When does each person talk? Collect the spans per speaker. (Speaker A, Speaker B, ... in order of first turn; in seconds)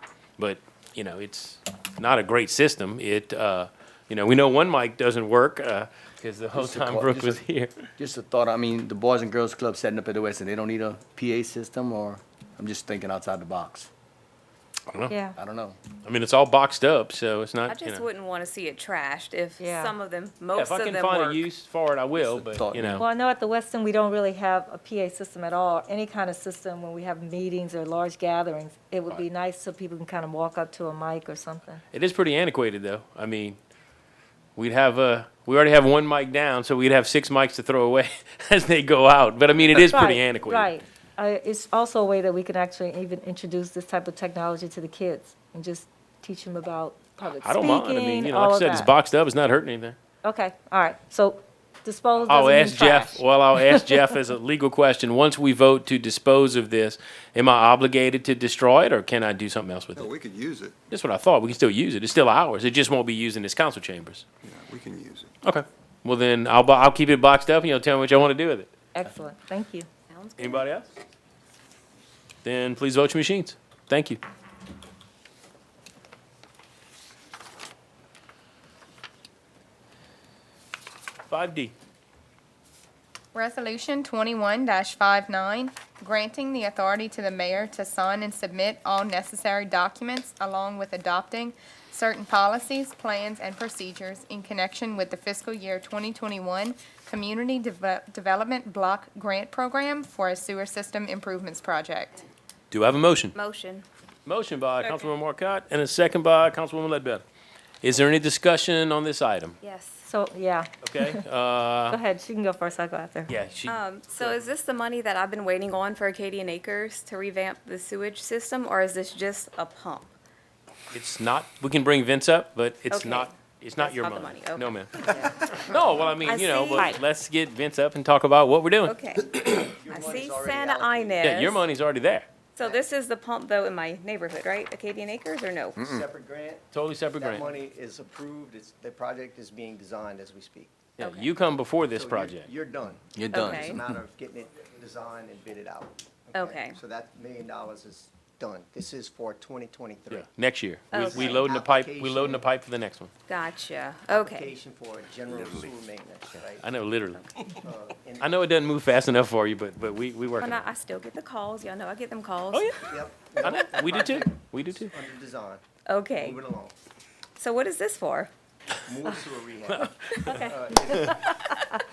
Speaker A: 0.4-7.7, 14.9-15.1, 16.0-18.1, 20.5-23.1, 31.9-33.6, 34.5-40.7, 47.3-50.0, 52.2-60.1, 60.9-64.2, 65.4-68.7, 70.4-70.9, 72.4-74.2, 81.3-81.7, 102.7-103.3, 104.2-107.2, 107.8-109.6, 110.8-112.0, 113.3-113.8, 120.9-128.9, 131.2-132.3, 136.7-137.5, 141.0-142.5, 150.1-153.1, 156.6-157.2, 158.2-160.7, 162.5-162.8, 163.4-164.9, 169.7-170.3
Speaker B: 6.5-7.4, 8.0-13.9, 15.3-15.8, 22.1-23.0, 143.1-143.9
Speaker C: 15.1-15.3, 19.6-19.9, 22.9-31.8, 39.7-48.9, 50.2-53.8, 68.9-69.9, 110.0-111.2, 111.9-113.3, 126.2-127.0, 170.2-171.7
Speaker D: 17.7-21.4, 70.1-70.7, 103.3-103.8, 104.8-105.2, 109.6-110.1, 113.7-120.1, 122.9-124.8, 126.3-126.9, 128.8-131.6, 132.6-135.8, 141.0-141.3, 143.3-143.8, 146.3-146.8, 150.9-151.5, 153.3-154.5, 160.4-162.7, 165.9-166.4, 167.4-168.3
Speaker E: 60.0-60.7, 64.4-65.3, 155.3-155.7
Speaker F: 83.3-102.2
Speaker G: 129.3-131.4, 135.8-140.8, 141.9-150.2, 150.9-152.5, 154.1-156.6, 157.6-158.3, 162.8-166.7, 168.8-171.4